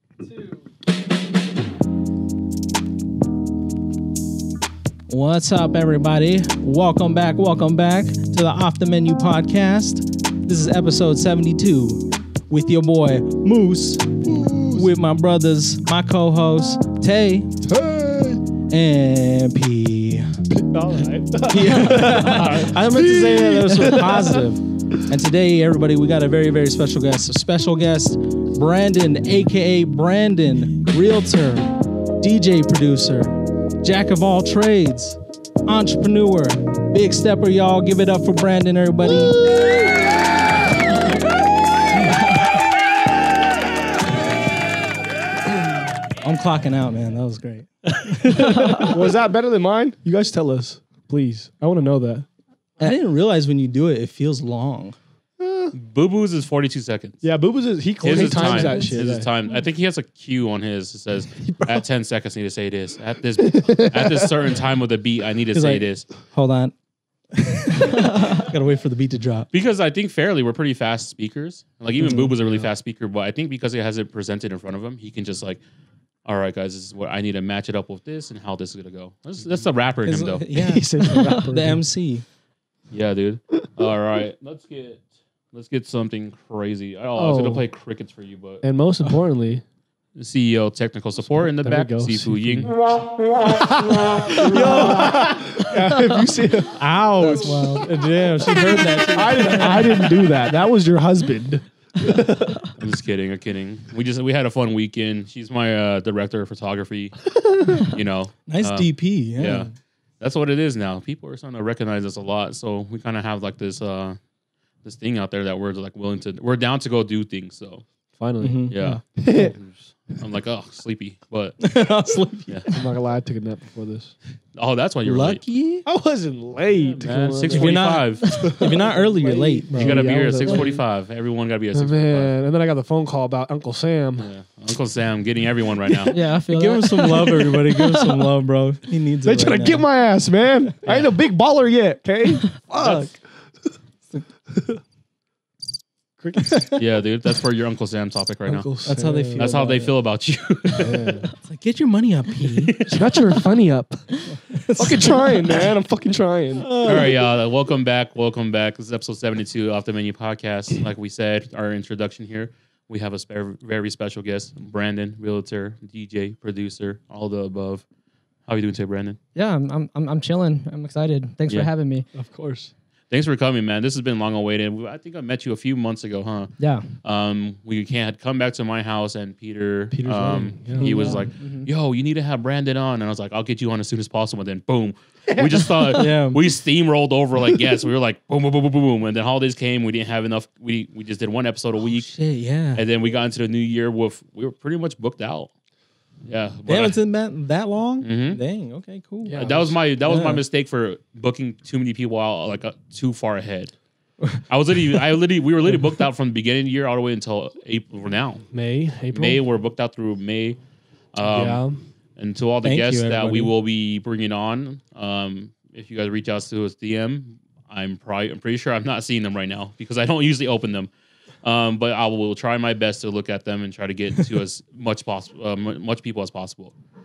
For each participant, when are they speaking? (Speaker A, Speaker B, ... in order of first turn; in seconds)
Speaker A: 5.1-17.5, 18.7-20.3, 21.5-39.4, 46.2-48.9, 52.8-55.7, 58.2-59.0, 65.5-66.7, 67.3-69.5, 72.0-72.3, 80.0-82.2, 94.4-95.3, 96.8-100.1, 108.5-109.7, 118.4-118.8, 121.6-122.6, 125.0-125.8, 127.3-130.1, 136.5-139.8, 142.7-143.1, 148.8-149.9, 151.4-152.8, 154.4-155.4, 156.6-157.2, 185.9-186.4, 191.9-192.8, 196.7-200.4, 212.6-213.5
Speaker B: 14.3-14.8, 17.7-18.4, 20.5-24.4, 48.8-52.3, 57.2-59.3, 63.5-64.2, 72.4-72.7, 80.5-81.8, 87.2-87.6, 88.6-89.6, 91.4-92.8, 93.6-96.8, 99.1-102.6, 118.2-119.6, 122.7-124.2, 125.9-130.8, 131.7-134.3, 139.2-143.2, 146.2-146.8, 148.5-149.9, 150.8-151.3, 152.9-154.2, 154.8-157.1, 172.1-172.7, 179.9-181.3, 199.2-199.8, 208.5-209.4, 211.3-211.8
Speaker C: 48.4-48.9, 81.1-81.4, 97.2-97.9, 98.5-99.9, 136.1-138.2, 169.3-172.1, 176.6-176.9, 180.8-181.7
Speaker D: 55.7-57.2, 58.0-66.1, 69.5-75.6, 76.2-80.5, 82.9-88.6, 90.2-92.7, 102.8-114.2, 114.8-117.8, 118.7-121.6, 124.5-125.4, 126.8-128.4, 129.7-132.3, 134.2-136.2, 140.9-141.1, 146.8-148.7, 149.3-151.2, 152.6-153.2, 156.8-167.8, 168.5-169.2, 173.1-192.1, 192.8-195.5, 196.2-197.0, 198.0-198.4, 199.4-203.7, 204.5-208.5, 209.1-210.6, 211.1-211.6, 212.2-220.9, 221.4-226.7